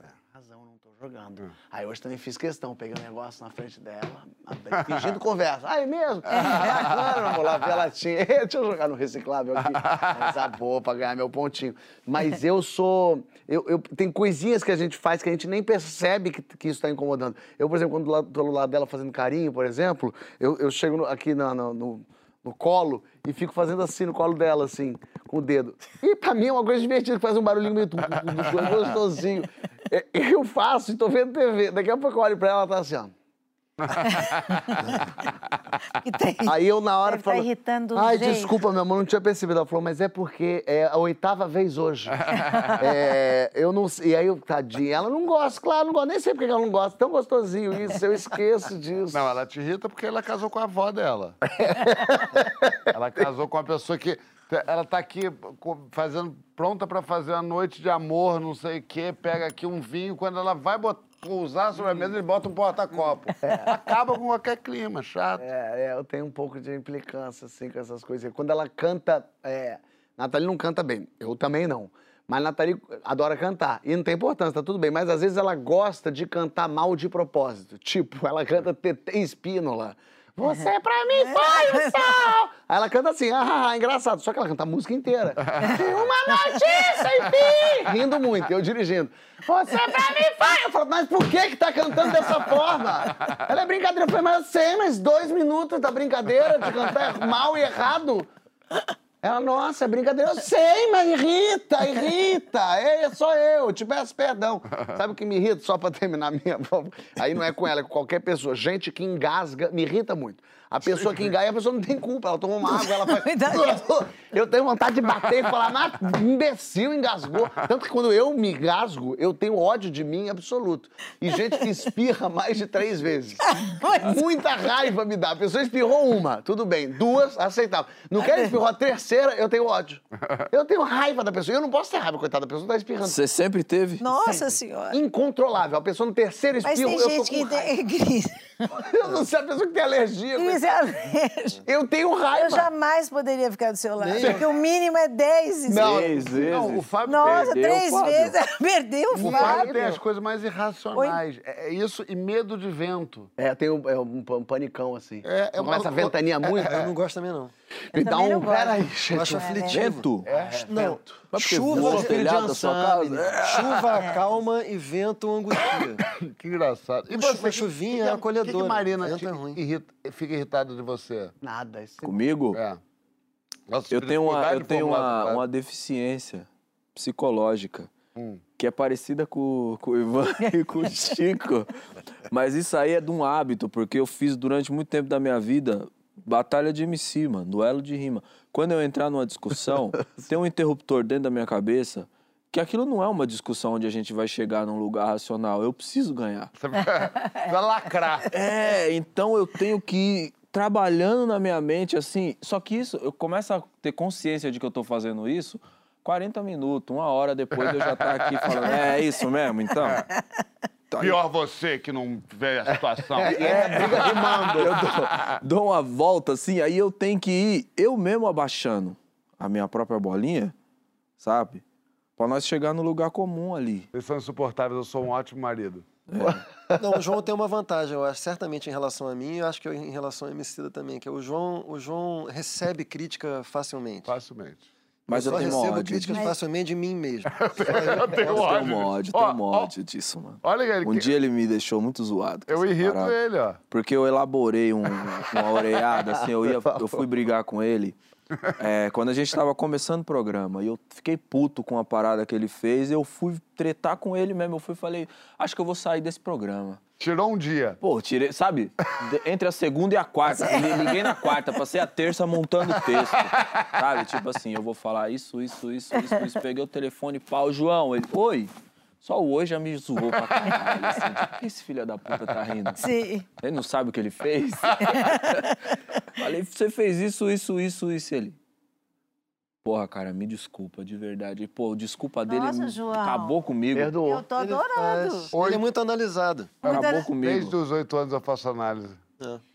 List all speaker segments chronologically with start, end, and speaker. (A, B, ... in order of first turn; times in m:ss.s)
0:00.3-0:33.1 A
0:06.4-0:06.8 B
0:09.8-0:10.1 B
0:33.8-0:34.7 B
0:34.0-0:35.0 C
0:35.9-0:38.6 C
0:36.5-0:42.2 A
0:42.3-0:42.7 B
0:42.3-0:42.8 C
0:42.8-0:49.4 A
0:49.1-0:51.4 B
0:51.5-0:53.3 A
0:52.9-1:05.4 B
1:01.8-1:02.1 A
1:03.4-1:03.8 A
1:05.4-1:38.3 A
1:21.2-1:22.1 C
1:25.5-1:25.8 B
1:39.2-2:13.2 A
1:52.6-1:53.8 C
2:03.5-2:04.2 C
2:08.2-2:08.5 C
2:13.0-2:14.0 D
2:14.0-2:15.0 C
2:14.9-2:17.7 A
2:16.6-2:18.7 C
2:18.7-2:20.8 A
2:20.4-2:21.6 C
2:21.6-2:22.7 A
2:22.3-2:26.0 C
2:24.0-2:24.4 E
2:25.7-2:26.7 A
2:25.8-2:28.4 D
2:26.4-2:27.5 B
2:27.0-2:29.8 C
2:29.1-2:30.0 A
2:29.1-2:33.3 B
2:30.9-2:31.2 C
2:33.4-2:36.8 A
2:35.2-2:36.9 B
2:36.6-2:37.5 E
2:37.9-2:39.6 A
2:37.9-2:39.8 C
2:39.1-2:42.2 E
2:39.7-2:40.3 D
2:40.2-2:40.8 B
2:40.3-2:43.4 A
2:41.3-2:43.9 D
2:43.4-2:46.0 E
2:46.1-2:51.3 B
2:47.1-2:49.6 E
2:51.4-2:52.2 A
2:52.0-2:52.6 D
2:52.5-2:52.8 B
2:53.7-2:55.4 B
2:53.9-2:57.9 D
2:58.2-2:58.4 B
2:58.6-3:01.7 D
3:02.3-3:16.5 D
3:16.6-3:18.3 B
3:18.3-3:30.1 D
3:27.7-3:28.7 B
3:30.9-3:31.2 D
3:31.0-3:35.4 B
3:33.2-3:34.7 A
3:33.2-3:40.5 D
3:41.2-3:41.6 D
3:42.2-3:43.9 D
3:43.9-3:45.9 B
3:46.1-3:46.4 D
3:46.2-3:46.8 A
3:46.8-3:54.1 E
3:54.0-3:54.7 B
3:55.1-3:56.2 D
3:55.1-3:58.4 E
3:57.3-3:59.7 B
3:58.2-4:03.2 D
4:00.4-4:01.1 B
4:02.5-4:03.6 B
4:03.7-4:08.0 D
4:06.0-4:07.0 A
4:08.6-4:16.8 D
4:17.0-4:17.8 B
4:17.8-4:32.8 D
4:23.3-4:23.6 B
4:32.8-4:33.3 C
4:33.4-4:35.5 D
4:34.9-4:35.5 C
4:36.2-4:38.4 D
4:39.6-4:43.9 D
4:42.3-4:43.4 C
4:43.7-4:44.2 A
4:44.0-4:45.3 C
4:44.4-4:46.5 E
4:45.3-4:45.6 B
4:46.6-4:47.1 C
4:46.6-4:47.6 D
4:46.7-4:49.0 B